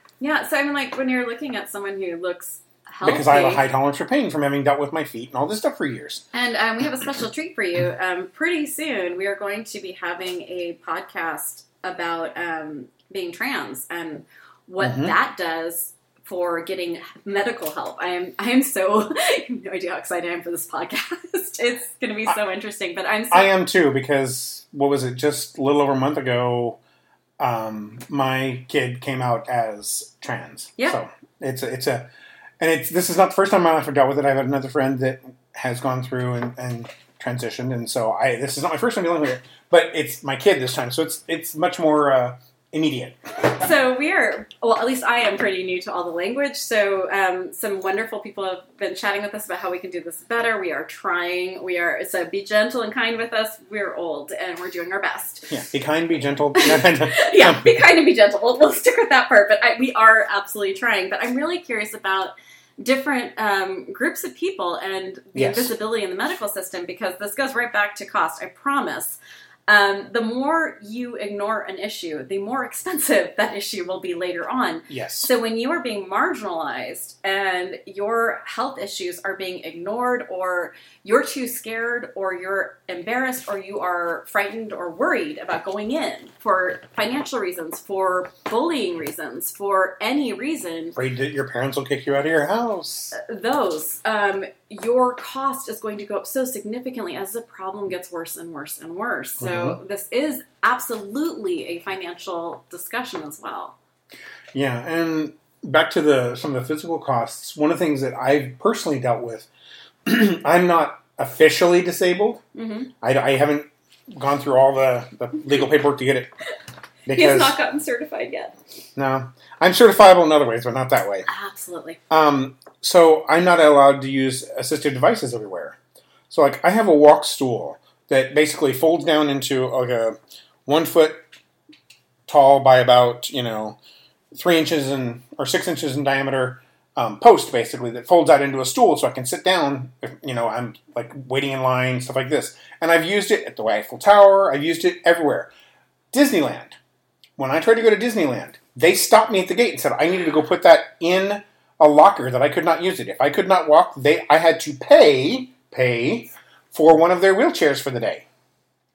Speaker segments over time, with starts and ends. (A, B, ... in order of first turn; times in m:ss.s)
0:00.2-0:03.6 A
0:03.0-0:06.2 B
0:06.3-0:23.5 A
0:14.8-0:15.1 B
0:23.3-0:26.8 B
0:27.4-0:43.2 B
0:43.5-0:55.5 A
0:55.5-0:57.7 B
0:56.6-1:31.0 A
1:05.4-1:05.7 B
1:14.9-1:15.3 B
1:31.0-1:33.2 B
1:33.1-1:43.8 A
1:39.4-1:39.8 B
1:44.5-1:49.5 B
1:50.1-1:52.4 B
1:52.6-1:52.9 A
1:53.0-1:56.3 B
1:57.1-1:57.6 B
1:57.1-1:58.6 A
1:59.0-2:01.3 B
2:01.3-2:02.0 A
2:02.1-2:05.8 B
2:06.3-2:11.2 B
2:12.3-2:13.8 B
2:14.3-2:25.5 B
2:26.1-2:26.8 B
2:27.4-2:38.2 B